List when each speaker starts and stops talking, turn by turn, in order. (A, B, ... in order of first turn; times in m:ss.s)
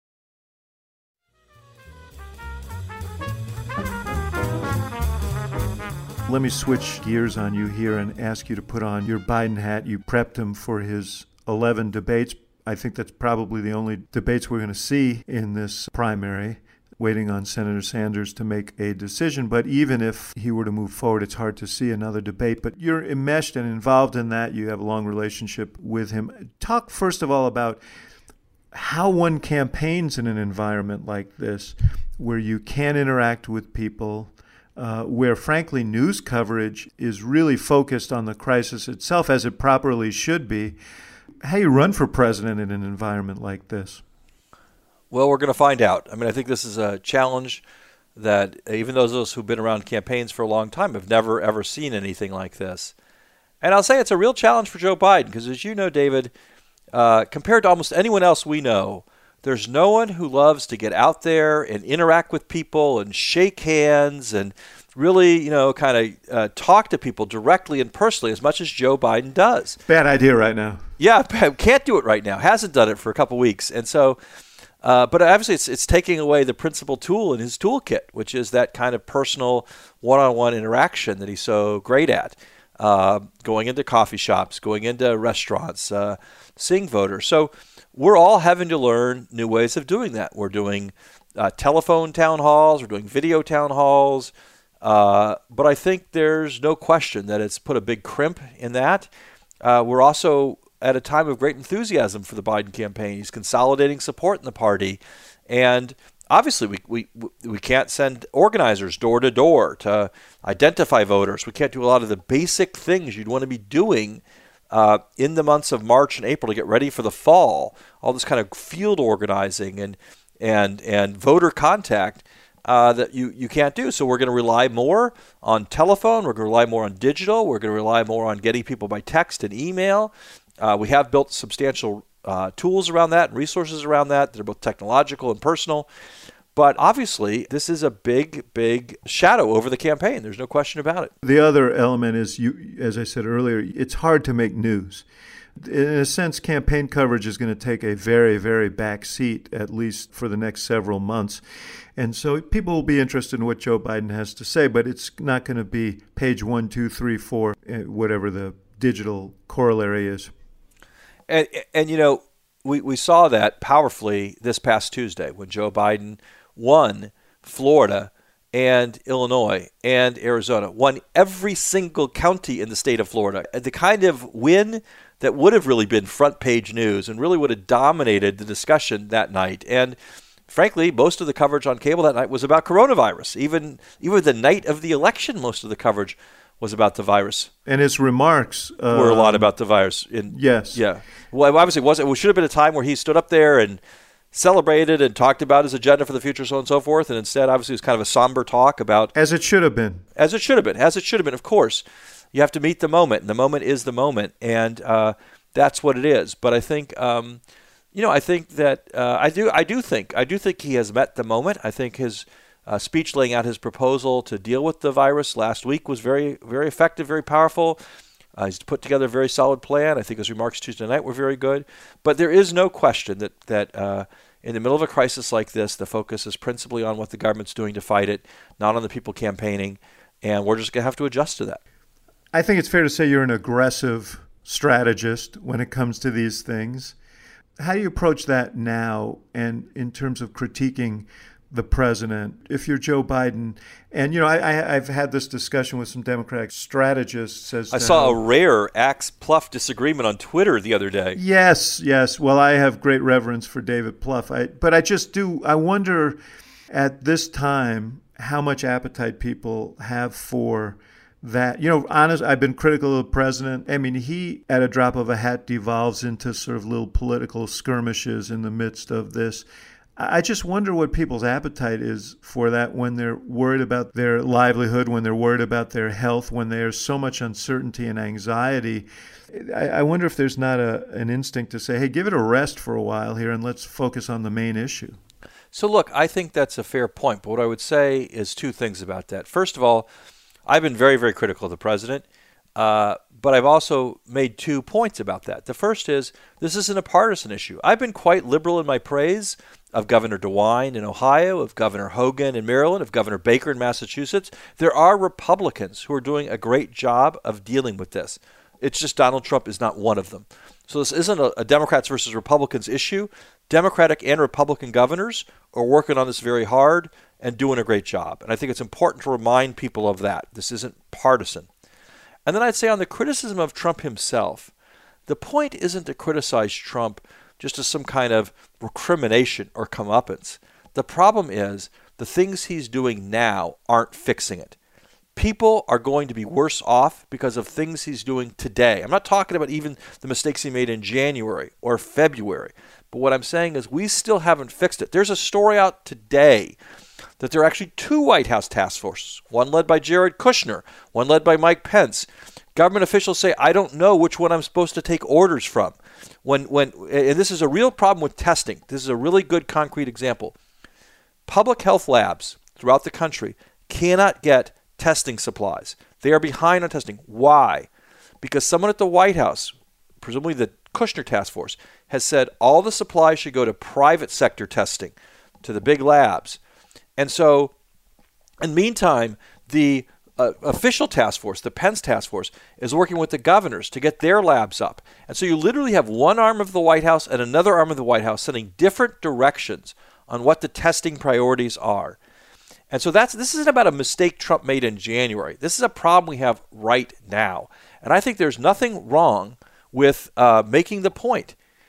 0:06.3-0:27.8 A
0:28.7-0:40.8 A
0:41.4-0:44.0 A
0:45.1-0:47.6 B
0:48.2-0:52.9 B
0:53.6-0:56.3 B
0:56.9-1:09.8 B
1:09.9-1:10.8 A
1:11.0-1:14.2 B
1:14.8-1:39.1 B
1:39.6-2:15.9 B
2:16.6-2:21.1 B
2:21.2-2:25.0 A
2:25.6-2:31.4 A
2:32.0-2:40.3 A
2:41.3-3:00.0 B
3:00.5-3:07.5 B
3:07.7-3:09.5 A
3:08.9-3:13.8 B
3:10.3-3:10.8 A
3:14.3-3:19.1 B
3:19.2-3:20.0 A
3:20.2-3:27.4 B
3:27.9-3:37.8 B
3:38.4-3:51.6 B
3:52.3-3:57.0 A
3:57.6-4:08.2 A
4:07.7-4:11.2 B
4:11.2-4:16.2 A
4:16.7-4:29.4 A
4:30.0-4:45.0 A
4:45.5-4:49.9 B
4:50.5-4:52.0 B
4:52.6-5:21.5 B
5:22.2-5:24.5 B
5:25.1-5:34.6 B
5:35.2-5:46.6 B
5:47.2-6:00.3 B
6:01.3-6:07.7 B
6:08.2-6:16.4 B
6:17.0-6:17.5 B
6:18.4-6:32.0 B
6:32.7-6:41.4 B